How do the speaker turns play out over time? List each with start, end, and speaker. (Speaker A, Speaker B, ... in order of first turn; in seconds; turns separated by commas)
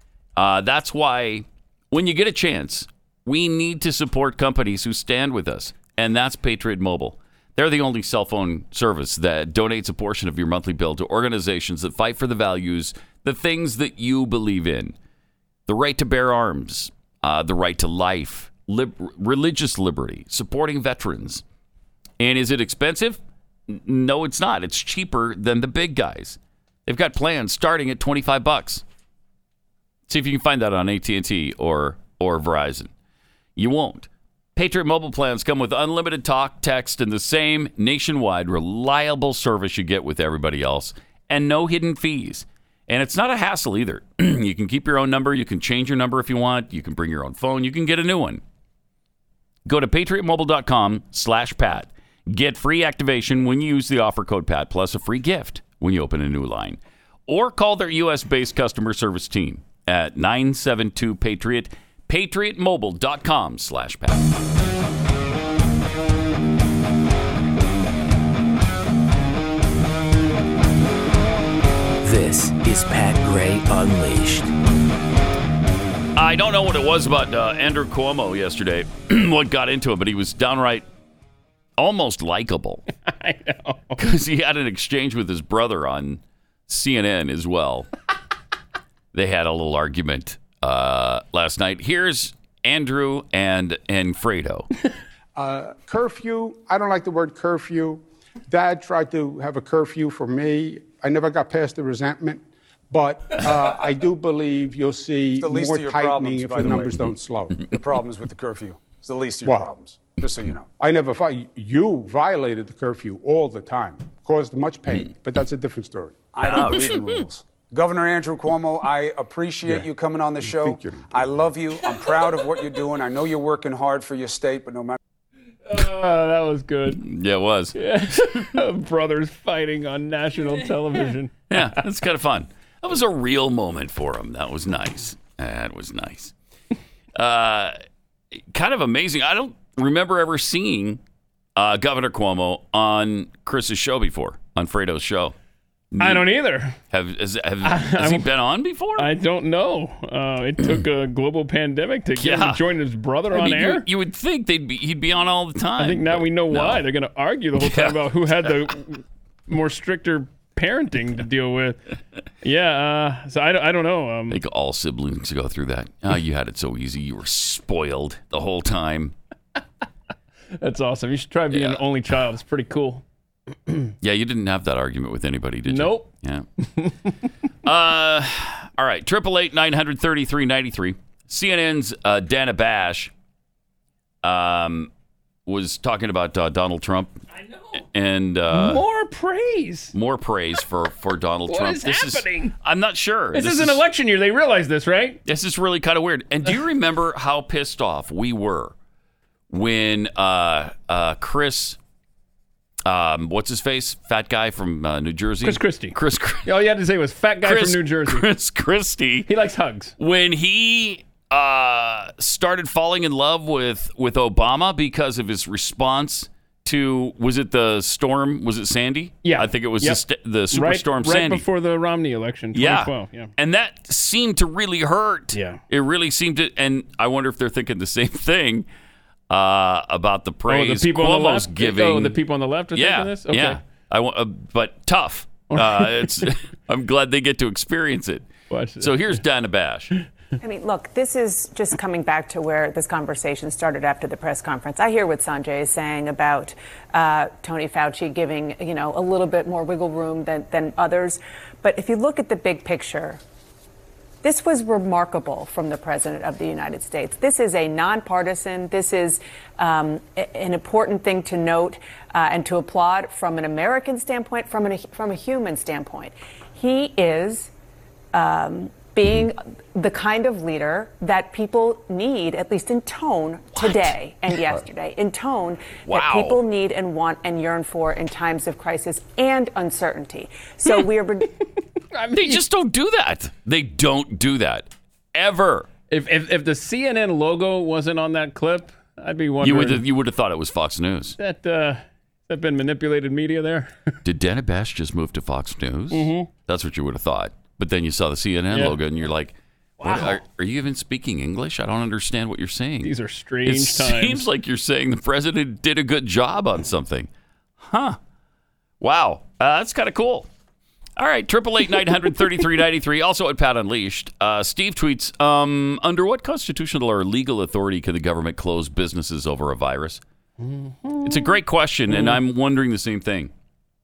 Speaker A: 0.3-14.9, Speaker A: 15.7-21.4, Speaker A: 22.2-28.8, Speaker A: 30.1-32.9, Speaker A: 33.5-48.4, Speaker A: 49.6-64.3, Speaker B: 72.0-74.5, Speaker A: 76.2-80.8, Speaker A: 81.8-82.8, Speaker C: 83.0-84.0, Speaker A: 84.0-87.9, Speaker A: 89.1-94.7, Speaker D: 95.3-107.6, Speaker E: 105.4-110.8, Speaker D: 109.4-109.7, Speaker D: 110.7-116.3, Speaker E: 116.3-125.0, Speaker A: 116.4-117.0, Speaker D: 120.5-121.0, Speaker C: 125.7-127.0, Speaker A: 127.0-128.4, Speaker C: 127.7-131.7, Speaker A: 131.5-136.3, Speaker A: 137.1-137.7, Speaker A: 138.5-141.0, Speaker A: 141.6-145.3, Speaker A: 145.9-146.3, Speaker C: 146.0-146.8, Speaker A: 146.9-149.1, Speaker C: 147.6-148.2, Speaker C: 149.0-153.8, Speaker A: 152.2-152.6, Speaker A: 153.3-156.8, Speaker C: 155.8-161.8, Speaker A: 157.6-158.5, Speaker C: 162.4-164.4, Speaker A: 164.3-169.1, Speaker C: 170.6-173.0, Speaker A: 171.5-171.8, Speaker A: 174.0-176.4, Speaker C: 175.7-176.1, Speaker C: 176.7-177.1, Speaker A: 177.6-183.1, Speaker A: 184.2-184.9, Speaker A: 185.4-187.2, Speaker A: 187.9-188.8, Speaker C: 188.5-189.9, Speaker A: 189.9-193.8, Speaker C: 191.5-192.5, Speaker C: 193.3-195.2, Speaker A: 195.2-198.7, Speaker A: 199.5-201.8, Speaker A: 202.8-206.5, Speaker C: 205.4-208.2, Speaker A: 207.4-209.3, Speaker C: 209.3-209.9, Speaker A: 210.0-221.4, Speaker C: 219.2-223.3, Speaker A: 222.5-228.7, Speaker C: 225.3-225.6, Speaker A: 229.3-232.2, Speaker C: 230.5-233.6, Speaker A: 232.7-238.2, Speaker C: 235.5-236.1, Speaker C: 238.5-239.2, Speaker A: 238.8-239.9, Speaker F: 240.4-253.2, Speaker F: 254.2-267.5, Speaker F: 268.1-281.4, Speaker A: 273.6-273.9, Speaker A: 275.9-276.4, Speaker C: 281.9-282.4, Speaker A: 282.1-285.7, Speaker C: 285.9-289.8, Speaker A: 289.4-291.1, Speaker C: 291.2-294.0, Speaker A: 294.0-302.9, Speaker C: 295.9-296.3, Speaker C: 298.5-298.8, Speaker C: 299.8-300.2, Speaker C: 302.8-304.3, Speaker A: 303.4-307.1, Speaker A: 307.6-308.0, Speaker A: 308.8-310.3, Speaker A: 311.0-320.0, Speaker C: 320.4-321.4, Speaker A: 321.0-323.3, Speaker C: 321.9-322.2